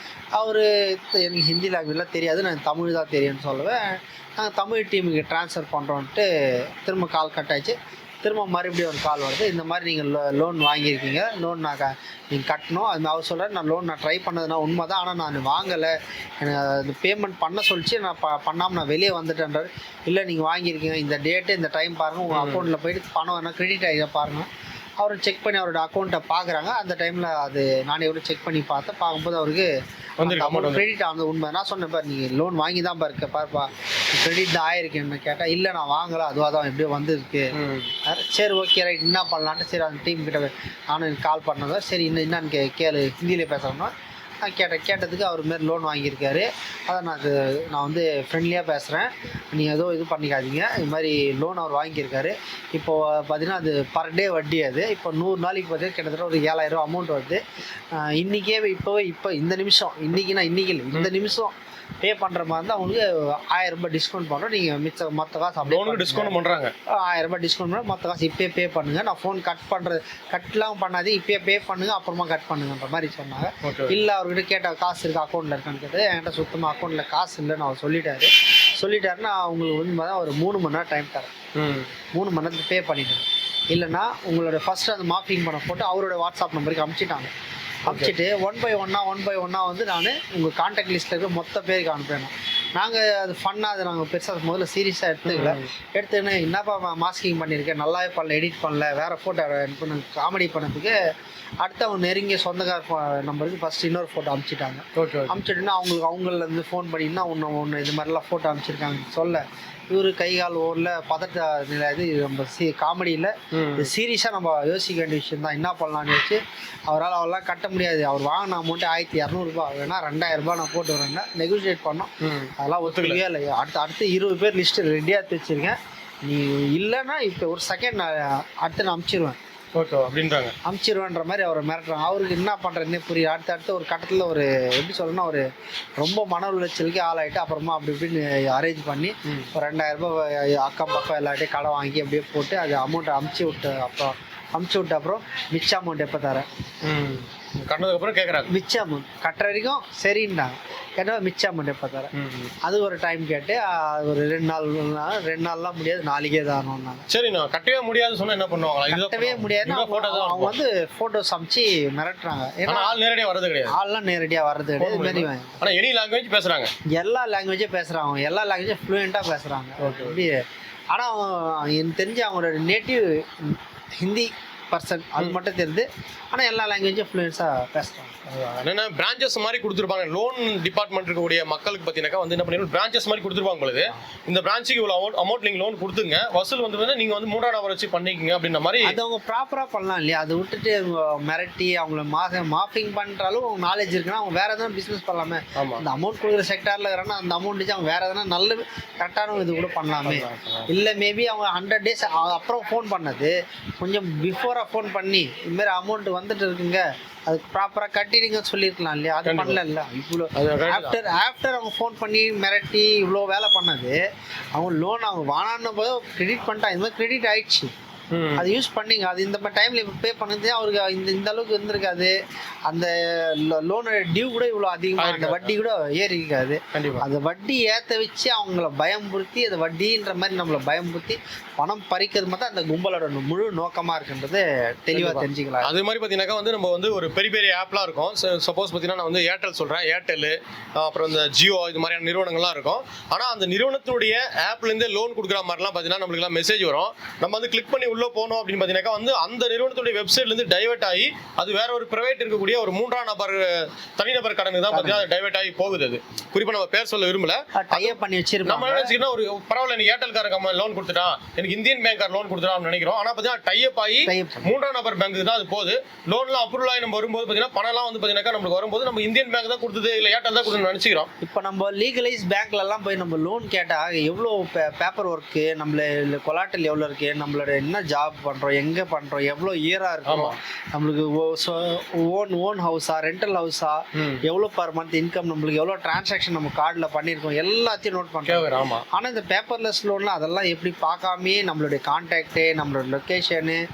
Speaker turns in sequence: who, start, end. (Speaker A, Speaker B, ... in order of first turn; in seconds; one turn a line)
Speaker A: 0.3-6.3
Speaker A: 6.8-24.5
Speaker B: 22.3-22.7
Speaker A: 25.0-57.4
Speaker B: 30.2-30.9
Speaker B: 37.5-37.9
Speaker A: 57.9-66.3
Speaker B: 65.7-66.7
Speaker A: 66.9-81.3
Speaker B: 73.6-74.0
Speaker B: 81.5-81.9
Speaker A: 82.1-87.3
Speaker A: 87.8-101.0
Speaker B: 95.2-95.7
Speaker A: 101.6-129.4
Speaker B: 105.0-105.3
Speaker B: 113.5-113.9
Speaker B: 122.2-123.2
Speaker B: 129.7-130.5
Speaker A: 130.6-135.4
Speaker A: 136.0-146.5
Speaker B: 146.8-148.5
Speaker A: 148.5-157.1
Speaker B: 152.1-152.5
Speaker B: 157.1-160.6
Speaker A: 158.9-163.0
Speaker B: 162.7-163.7
Speaker A: 163.7-165.6
Speaker B: 164.8-166.7
Speaker A: 166.9-178.3
Speaker B: 169.8-170.2
Speaker B: 178.3-188.9
Speaker A: 188.8-214.0
Speaker B: 195.6-195.8
Speaker B: 200.0-200.7
Speaker B: 209.2-209.6
Speaker B: 210.3-211.0
Speaker A: 214.5-217.7
Speaker B: 218.1-218.4
Speaker A: 218.3-222.1
Speaker A: 222.7-235.7
Speaker B: 225.0-225.5
Speaker B: 226.7-227.0
Speaker B: 234.9-271.1
Speaker A: 254.7-255.0
Speaker A: 257.6-258.9
Speaker A: 264.0-264.5
Speaker A: 271.2-293.6
Speaker B: 280.1-280.3
Speaker B: 283.9-284.2
Speaker B: 288.2-288.8